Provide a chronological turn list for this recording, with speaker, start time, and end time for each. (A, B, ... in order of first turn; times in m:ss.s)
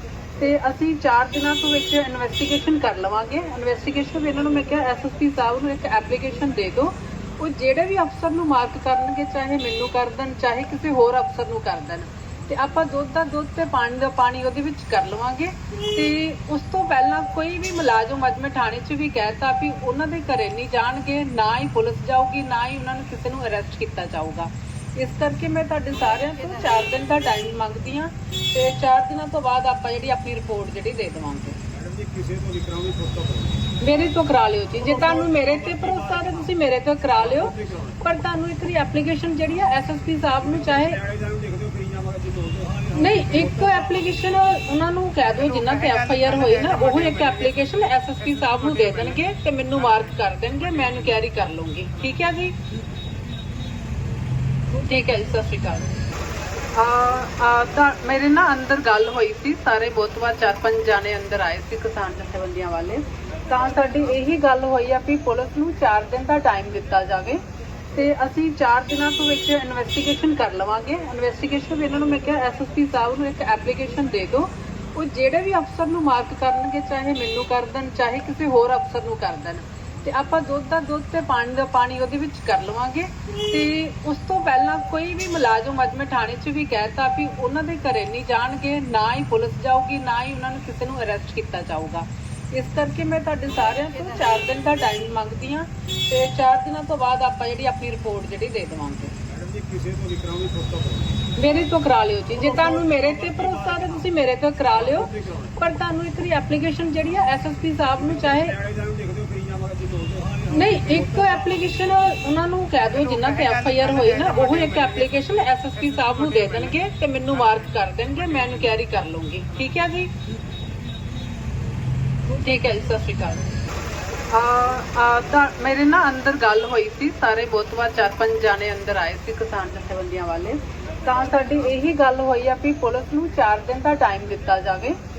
0:00.4-0:31.6 A
0:31.8-0:33.6 B
0:33.8-0:41.0 A
0:41.0-0:42.9 B
0:42.9-0:52.6 A
0:54.7-0:55.8 A
0:56.7-1:07.4 A
1:07.9-1:39.1 A
1:39.3-1:41.2 B
1:41.4-1:48.6 A
1:48.6-1:50.5 B
1:50.5-2:00.1 A
2:02.3-2:03.4 A
2:04.3-2:15.0 A